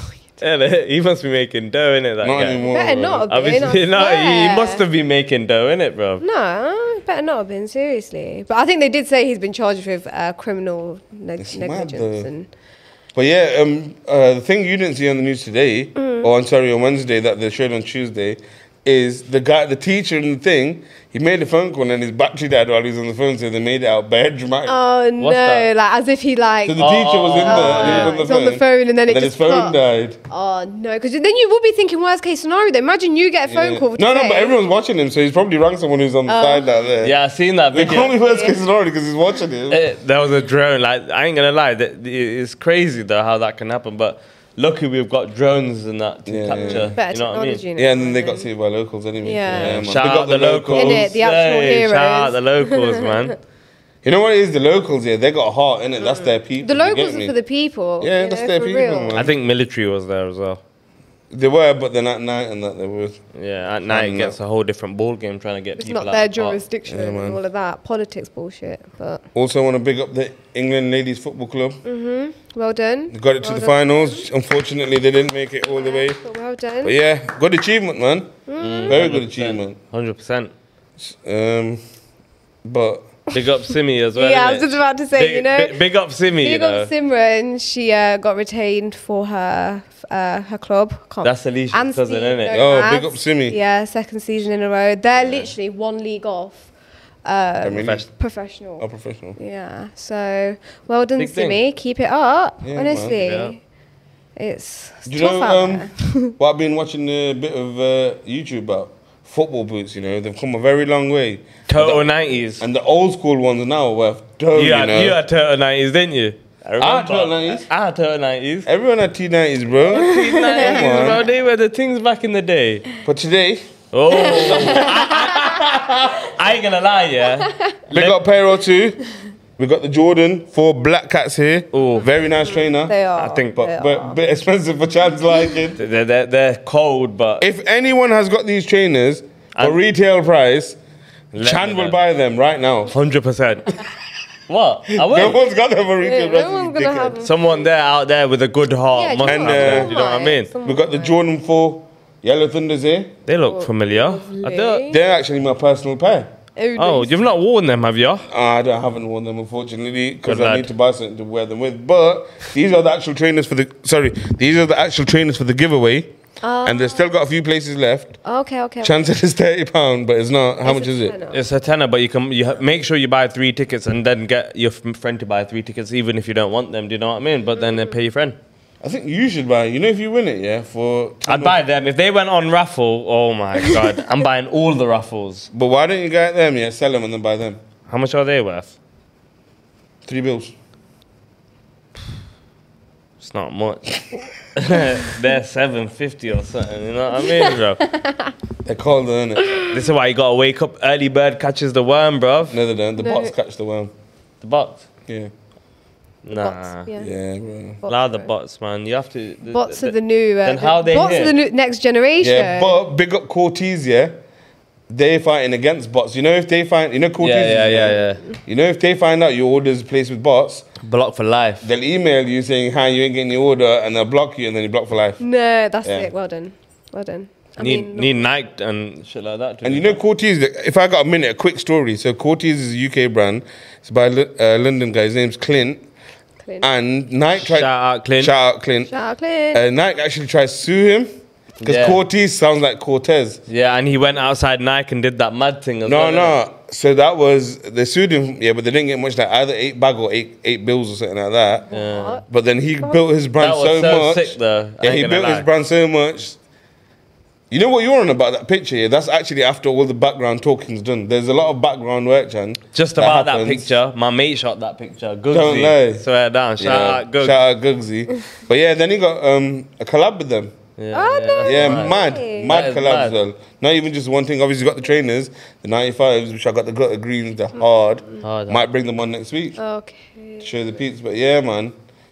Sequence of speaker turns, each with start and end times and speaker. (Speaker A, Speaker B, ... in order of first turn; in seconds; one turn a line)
Speaker A: 0.4-2.6
Speaker B: 2.2-3.3
Speaker C: 2.6-4.8
Speaker A: 3.3-6.2
Speaker C: 6.2-12.5
Speaker B: 11.4-12.3
Speaker B: 13.1-24.8
Speaker C: 16.0-16.3
Speaker C: 24.7-26.9
Speaker A: 25.2-25.7
Speaker B: 26.6-30.2
Speaker A: 26.8-28.2
Speaker C: 27.4-29.8
Speaker C: 30.3-34.6
Speaker B: 33.5-37.1
Speaker C: 36.3-36.7
Speaker A: 37.0-38.1
Speaker B: 37.7-39.8
Speaker C: 38.0-38.6
Speaker A: 39.7-47.6
Speaker B: 46.3-47.0
Speaker C: 46.5-48.5
Speaker B: 47.8-51.1
Speaker C: 49.2-49.9
Speaker A: 49.5-53.4
Speaker C: 50.7-53.4
Speaker B: 54.0-57.3
Speaker C: 56.0-59.2
Speaker B: 58.0-59.3
Speaker A: 59.1-60.6
Speaker B: 61.3-63.2
Speaker A: 63.3-66.6
Speaker B: 63.9-64.4
Speaker C: 65.8-69.2
Speaker B: 66.9-67.4
Speaker B: 69.3-71.8
Speaker C: 71.8-74.3
Speaker B: 73.1-76.2
Speaker C: 75.7-76.9
Speaker B: 76.8-78.4
Speaker C: 78.5-79.0
Speaker A: 78.6-80.5
Speaker B: 78.9-79.8
Speaker B: 81.0-81.8
Speaker B: 82.6-83.1
Speaker A: 83.3-86.9
Speaker C: 84.1-85.8
Speaker C: 86.4-96.7
Speaker A: 91.2-92.6
Speaker B: 92.5-93.6
Speaker A: 95.2-95.5
Speaker C: 97.2-98.8
Speaker B: 97.6-98.0
Speaker A: 97.8-98.1
Speaker B: 98.8-99.4
Speaker C: 99.4-103.6
Speaker A: 101.2-101.6
Speaker B: 102.6-103.2
Speaker A: 103.2-103.5
Speaker C: 104.4-106.3
Speaker B: 105.1-112.1
Speaker A: 111.7-112.6
Speaker B: 112.6-115.2
Speaker A: 114.5-118.7
Speaker B: 116.8-117.7
Speaker B: 118.7-121.2
Speaker A: 119.8-122.9
Speaker C: 119.9-121.2
Speaker B: 123.0-123.7
Speaker A: 123.9-128.2
Speaker C: 124.1-125.5
Speaker B: 124.2-124.9
Speaker C: 127.4-127.8
Speaker B: 127.9-129.0
Speaker B: 129.6-133.0
Speaker A: 131.7-132.1
Speaker C: 132.4-134.2
Speaker A: 133.2-133.6
Speaker B: 133.6-135.8
Speaker A: 135.8-137.4
Speaker B: 137.4-140.8
Speaker A: 141.3-142.0
Speaker B: 141.4-142.9
Speaker A: 142.9-143.7
Speaker A: 144.5-145.4
Speaker B: 144.9-147.2
Speaker C: 146.0-147.6
Speaker A: 147.2-150.5
Speaker C: 148.9-151.2
Speaker B: 149.2-149.9
Speaker B: 150.6-153.1
Speaker A: 153.3-154.9
Speaker C: 153.4-155.0
Speaker B: 154.9-156.3
Speaker C: 156.6-157.2
Speaker A: 156.8-158.3
Speaker B: 158.3-166.1
Speaker A: 160.2-160.7
Speaker C: 166.4-167.1
Speaker B: 166.6-168.2
Speaker C: 168.2-169.0
Speaker B: 168.8-171.1
Speaker C: 170.6-171.4
Speaker A: 171.3-178.4
Speaker C: 177.6-177.9
Speaker B: 178.8-181.6
Speaker A: 181.3-185.5
Speaker B: 185.5-187.6
Speaker A: 187.9-188.8
Speaker B: 190.1-190.5
Speaker A: 193.2-194.0
Speaker A: 194.6-197.8
Speaker C: 197.3-198.3
Speaker B: 198.6-199.6
Speaker A: 199.7-202.6
Speaker B: 202.5-203.9
Speaker C: 203.0-203.3
Speaker A: 204.4-204.8
Speaker A: 206.2-206.9
Speaker C: 206.3-207.1
Speaker B: 207.0-207.8
Speaker C: 207.8-208.3
Speaker A: 207.9-211.3
Speaker C: 209.5-212.8
Speaker B: 212.2-214.2
Speaker B: 214.9-220.7
Speaker A: 217.2-218.2
Speaker C: 217.9-218.4
Speaker A: 220.8-221.7
Speaker B: 221.6-225.2
Speaker C: 225.2-228.2
Speaker B: 225.8-226.1
Speaker A: 227.6-230.0
Speaker B: 229.6-235.8
Speaker B: 236.6-238.9
Speaker A: 237.3-238.3
Speaker C: 238.9-239.6
Speaker B: 239.5-241.1
Speaker A: 241.6-242.0
Speaker B: 241.6-243.4
Speaker A: 243.5-246.4
Speaker B: 245.8-251.7
Speaker C: 251.7-252.2
Speaker A: 251.7-252.2
Speaker B: 252.3-256.4
Speaker A: 253.4-255.5
Speaker B: 257.5-263.8
Speaker A: 262.7-267.4
Speaker B: 265.3-266.0
Speaker B: 266.6-270.5
Speaker A: 270.8-273.1
Speaker C: 270.9-272.6
Speaker B: 271.4-279.6
Speaker A: 278.2-278.7
Speaker C: 279.6-280.6
Speaker B: 280.4-281.8